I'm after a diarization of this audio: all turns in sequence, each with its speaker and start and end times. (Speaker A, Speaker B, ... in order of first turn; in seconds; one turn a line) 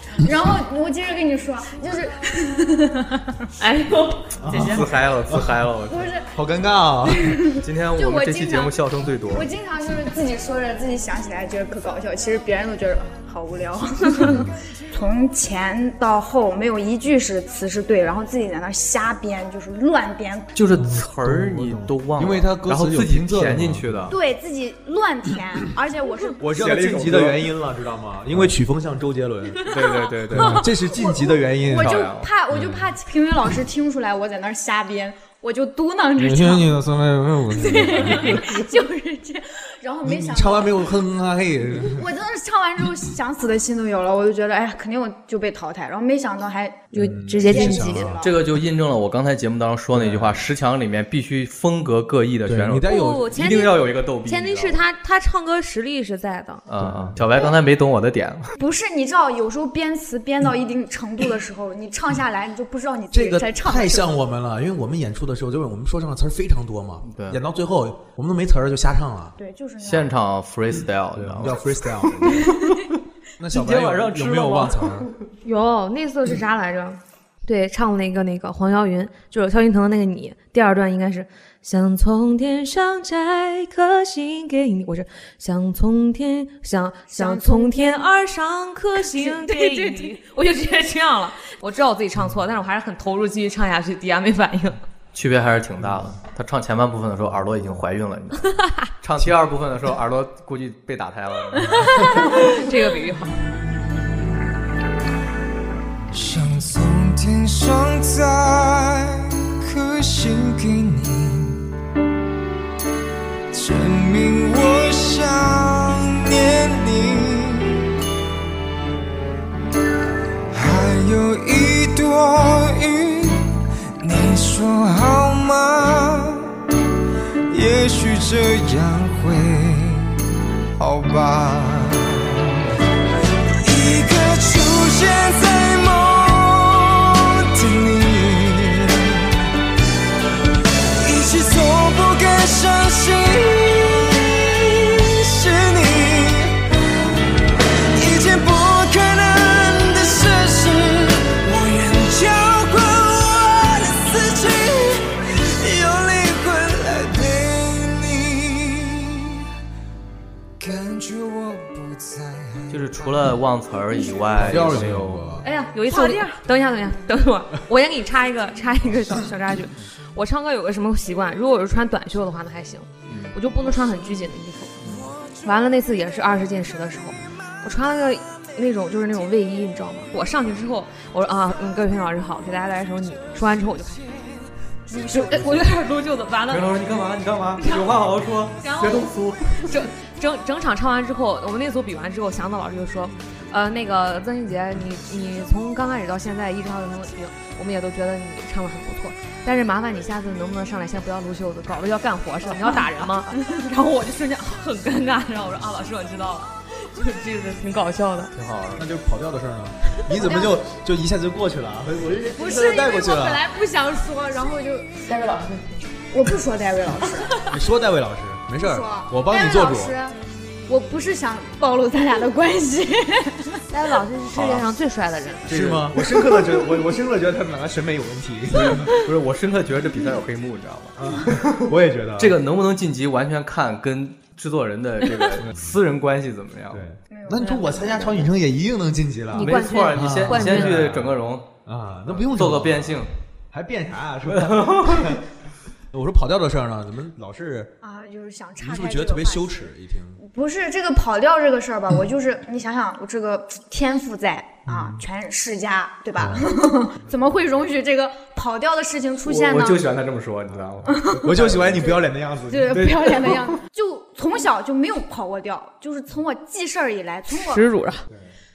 Speaker A: 0.2-3.5
Speaker B: 3.6-4.8
Speaker C: 4.4-5.6
Speaker D: 4.5-6.1
Speaker A: 5.9-6.3
Speaker C: 6.3-7.5
Speaker A: 7.1-8.8
Speaker D: 7.6-9.5
Speaker A: 9.3-20.5
Speaker D: 20.6-24.2
Speaker C: 21.0-24.1
Speaker A: 24.1-26.4
Speaker C: 26.4-32.0
Speaker D: 26.5-27.5
Speaker D: 29.7-30.7
Speaker A: 30.9-36.8
Speaker D: 31.7-32.3
Speaker C: 32.5-32.9
Speaker C: 36.2-38.6
Speaker A: 37.5-40.9
Speaker C: 40.0-42.1
Speaker A: 41.8-48.4
Speaker B: 46.9-48.1
Speaker C: 47.0-48.3
Speaker D: 48.2-54.8
Speaker C: 49.9-50.5
Speaker C: 52.5-53.3
Speaker B: 52.8-56.6
Speaker D: 56.7-58.5
Speaker C: 56.8-57.2
Speaker A: 58.6-64.1
Speaker C: 63.1-69.4
Speaker D: 67.0-67.4
Speaker A: 69.4-70.2
Speaker D: 69.8-71.7
Speaker C: 71.1-72.5
Speaker C: 73.4-75.1
Speaker D: 73.5-75.1
Speaker B: 75.5-94.8
Speaker A: 87.1-88.1
Speaker A: 89.0-90.2
Speaker D: 95.1-102.4
Speaker B: 102.3-103.5
Speaker E: 106.1-111.7
Speaker E: 113.5-118.0
Speaker E: 120.5-126.5
Speaker E: 127.5-130.1
Speaker E: 130.8-132.4
Speaker E: 133.6-139.2
Speaker E: 141.0-146.6
Speaker E: 147.9-159.4
Speaker E: 160.6-163.0
Speaker D: 162.7-165.2
Speaker C: 164.4-165.5
Speaker B: 165.4-174.8
Speaker A: 165.9-166.2
Speaker D: 173.1-173.4
Speaker D: 174.8-175.1
Speaker B: 175.4-184.2
Speaker A: 184.9-185.7
Speaker B: 185.1-186.7
Speaker D: 186.5-189.8
Speaker B: 187.6-187.9
Speaker B: 188.6-208.3
Speaker D: 208.3-208.8
Speaker C: 208.8-213.4
Speaker A: 210.2-210.6
Speaker A: 212.4-214.9
Speaker B: 215.1-215.6
Speaker A: 216.1-217.4
Speaker C: 217.5-220.0
Speaker A: 218.6-223.6
Speaker B: 223.7-225.5
Speaker D: 224.3-224.7
Speaker D: 225.5-226.0
Speaker C: 225.5-228.9
Speaker D: 228.5-236.8
Speaker C: 231.0-232.4
Speaker C: 236.7-245.2
Speaker A: 237.1-238.3
Speaker B: 239.3-240.8
Speaker D: 239.4-241.5
Speaker D: 242.1-243.1
Speaker D: 244.3-245.2
Speaker C: 245.9-247.8
Speaker A: 247.8-249.7
Speaker C: 248.6-250.2
Speaker A: 250.2-259.9
Speaker C: 254.7-255.0
Speaker C: 256.2-256.5
Speaker D: 259.2-261.8
Speaker A: 260.9-267.7
Speaker C: 261.1-263.4
Speaker B: 267.3-268.1